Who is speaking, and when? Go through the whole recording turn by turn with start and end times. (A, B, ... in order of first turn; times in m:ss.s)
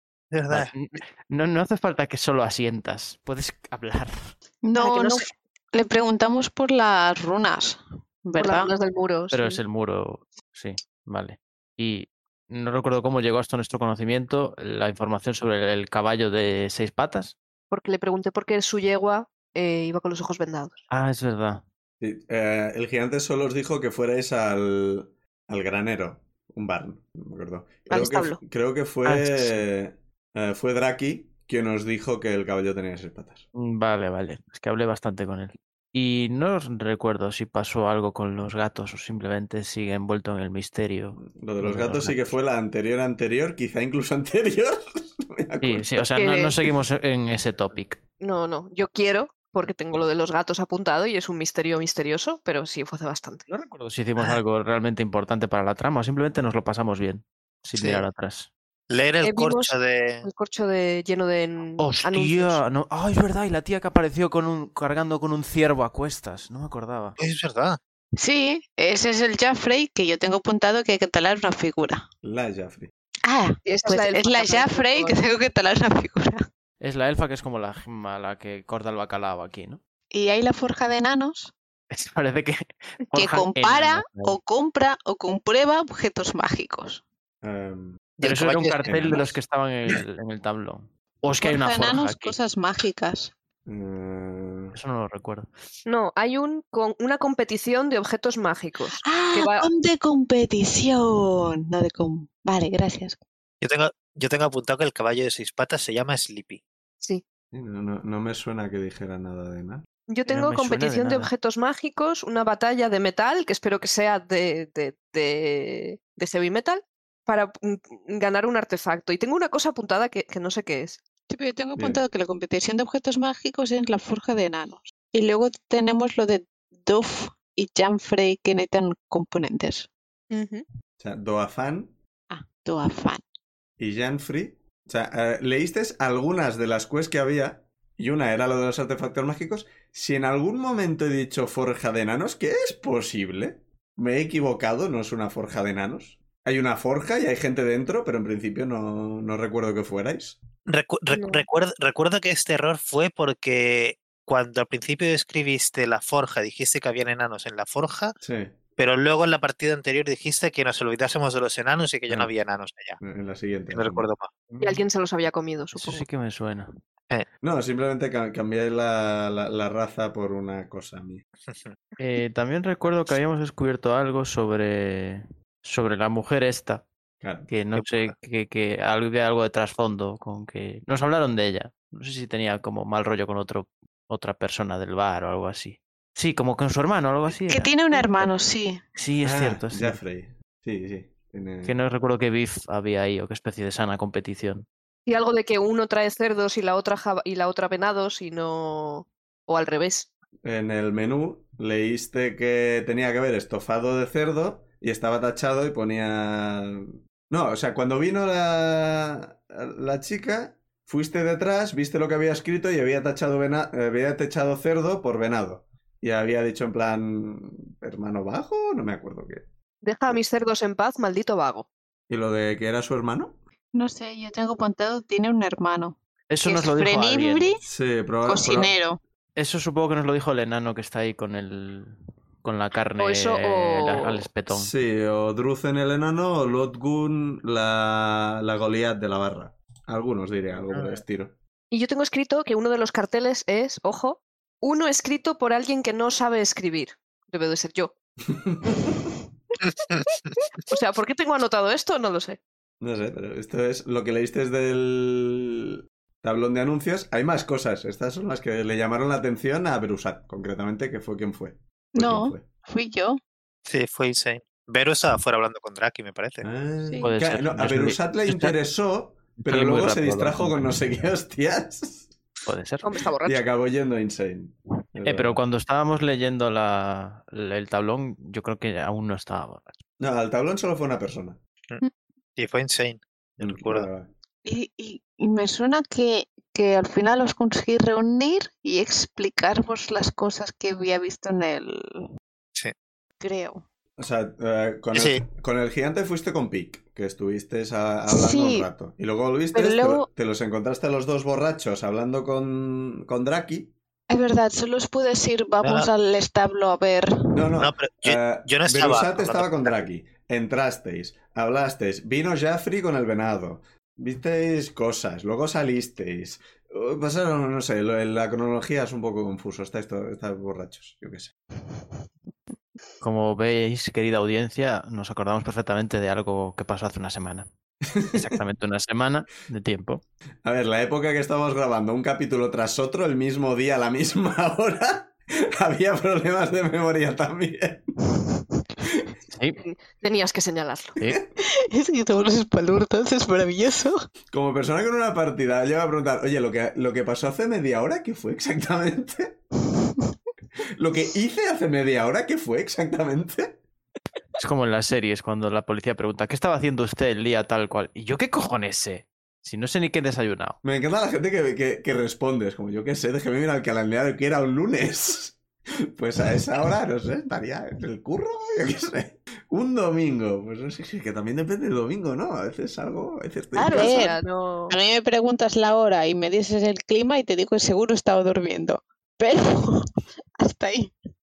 0:00.3-0:00.7 A
0:00.5-0:04.3 B
0:04.6-0:08.7 C
0:04.8-0:05.3 D
0:08.3-0:09.6 D
0:09.3-0:17.3 B
0:17.7-0:20.8 D
0:20.9-0:21.6 B
0:22.0-0:33.4 E
0:27.9-0:28.4 D
0:29.0-0:29.6 B
0:33.5-0:42.4 B
0:41.2-0:46.0 E
0:45.6-0:48.0 B
0:46.2-0:46.5 D
0:48.2-0:53.4 D
0:53.5-0:58.5 B
0:57.8-0:58.0 A
0:58.9-1:00.3 A
0:59.2-1:02.6 D
1:01.8-1:07.2 B
1:07.2-1:07.8 A
1:08.2-1:12.1 C
1:12.2-1:12.9 E
1:13.2-1:16.4 C
1:13.6-1:15.2 D
1:16.8-1:19.8 B
1:20.1-1:21.5 C
1:21.9-1:24.4 B
1:23.1-1:27.0 C
1:27.4-1:28.2 E
1:28.2-1:28.8 A
1:28.2-1:32.4 B
1:28.8-1:29.4 E
1:31.4-1:33.3 C
1:33.6-1:34.8 E
1:34.7-1:35.5 B
1:35.8-1:39.7 D
1:39.0-1:43.2 C
1:43.6-1:46.6 A
1:47.5-1:49.8 E
1:50.1-2:01.0 D
1:50.3-1:51.3 B
2:01.3-2:09.9 C
2:01.8-2:02.0 E
2:10.3-2:10.6 D
2:11.0-2:11.9 E
2:12.3-2:13.2 C
2:13.8-2:30.4 E
2:30.6-2:38.1 A
2:31.1-2:31.4 D
2:38.2-2:38.6 E
2:38.8-2:43.0 A
2:43.0-2:44.1 E
2:43.7-2:44.8 A
2:44.6-2:46.0 D
2:45.7-2:46.7 B
2:47.4-2:51.2 E
2:51.5-2:51.8 A
2:52.0-2:56.8 B
2:57.2-2:57.5 E
2:57.5-3:08.3 B
2:57.7-2:58.1 A
3:07.5-3:08.8 C
3:08.9-3:10.0 B
3:09.2-3:11.8 E
3:11.6-3:14.6 B
3:15.0-3:20.1 D
3:20.4-3:39.4 E
3:39.8-3:41.7 D
3:42.1-3:43.4 E
3:43.7-3:47.6 C
3:46.3-3:47.5 B
3:47.6-3:48.7 E
3:48.2-3:49.0 C
3:49.4-3:54.7 B
3:53.0-3:54.2 D
3:54.5-4:01.3 E
4:00.7-4:01.0 A
4:01.7-4:07.9 D
4:08.3-4:08.9 E
4:10.6-4:12.4 D
4:12.8-4:22.5 E
4:21.9-4:23.2 C
4:23.6-4:26.5 A
4:26.4-4:32.1 E
4:26.8-4:27.1 C
4:27.0-4:28.6 B
4:29.4-4:31.1 B
4:32.4-4:32.9 B
4:32.8-4:33.4 D
4:33.2-4:35.4 E
4:35.0-4:39.8 B
4:40.0-4:41.4 E
4:42.4-4:43.9 A
4:43.4-4:44.1 E
4:44.4-4:52.1 C
4:53.2-4:53.6 C
4:54.0-5:03.7 E
4:54.9-4:55.2 A
4:58.1-4:58.7 C
4:59.5-5:00.0 C
5:04.1-5:07.4 C
5:05.6-5:05.9 A
5:07.3-5:21.3 E
5:07.6-5:09.8 A
5:23.0-5:27.5 B
5:27.9-5:28.3 E
5:28.1-5:30.0 B
5:30.4-5:37.9 E
5:39.3-5:39.6 B
5:39.6-5:41.0 D
5:41.0-5:41.3 E
5:41.4-5:44.0 C
5:44.3-5:49.4 E
5:50.8-5:53.6 E
5:54.4-6:00.6 B
6:00.6-6:05.4 E
6:06.0-6:14.1 E
6:13.5-6:14.1 C
6:13.6-6:14.8 D
6:14.7-6:19.8 C
6:20.4-6:20.9 C